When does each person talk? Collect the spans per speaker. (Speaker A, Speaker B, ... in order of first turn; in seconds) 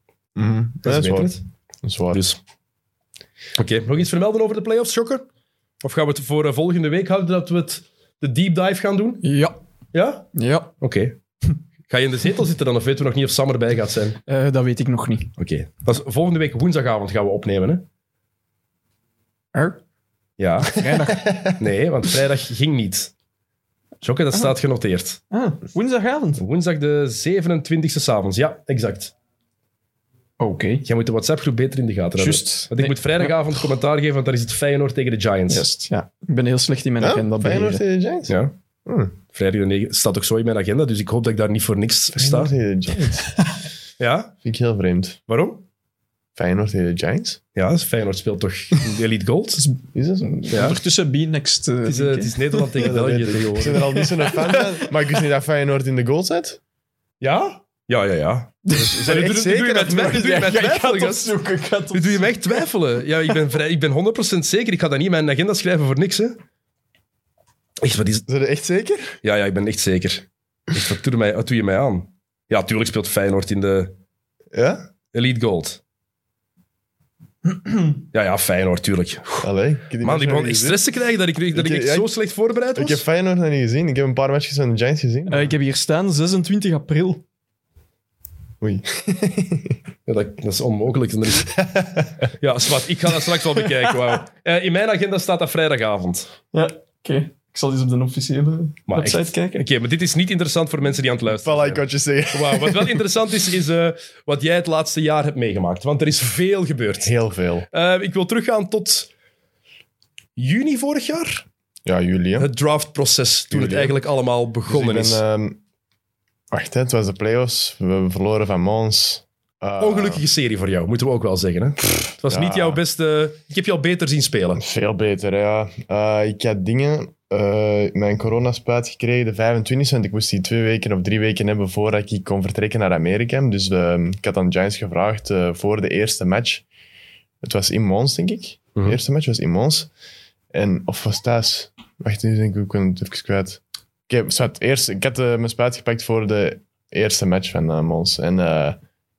Speaker A: 0.3-2.2, 21.1-21.6, 37.0-39.1, 42.1-43.3, 44.4-45.2, 46.4-47.4, 50.0-50.7, 52.8-56.6, 58.8-60.2, 68.3-69.2, 74.5-74.8, 79.4-80.8, 81.5-82.1, 82.8-85.5, 88.6-89.8, 91.5-92.3, 101.4-103.0, 107.0-107.7, 111.8-112.5, 113.5-114.0, 114.7-115.6, 116.5-120.2, 121.9-122.8, 124.6-136.7, 137.4-139.9, 140.5-148.8
Speaker B: 0.8-1.4, 2.1-2.4, 3.6-5.2, 5.8-9.2, 9.9-10.3, 10.8-11.2, 11.9-14.2, 15.4-17.9, 20.4-20.9, 21.5-23.1, 24.0-25.2, 26.4-29.1, 30.9-35.6, 38.3-38.5, 39.3-42.5, 44.0-44.3, 45.3-45.6, 47.5-49.7, 50.5-50.8, 51.8-54.0, 57.2-61.4, 61.9-66.4, 67.8-68.3, 69.2-73.9, 75.1-75.8, 78.1-79.5, 80.0-83.0, 90.1-91.6, 92.4-96.3, 98.9-107.1, 107.7-109.1, 110.4-111.5, 112.4-115.2, 119.8-124.6
Speaker C: 9.2-9.6, 10.3-10.7, 14.3-15.3, 19.5-19.8, 20.7-21.5, 25.3-26.4, 30.4-30.9, 32.2-33.6, 35.5-37.8, 49.6-52.9, 53.6-54.9, 58.7-62.6, 77.5-77.9, 85.3-87.2, 96.5-99.7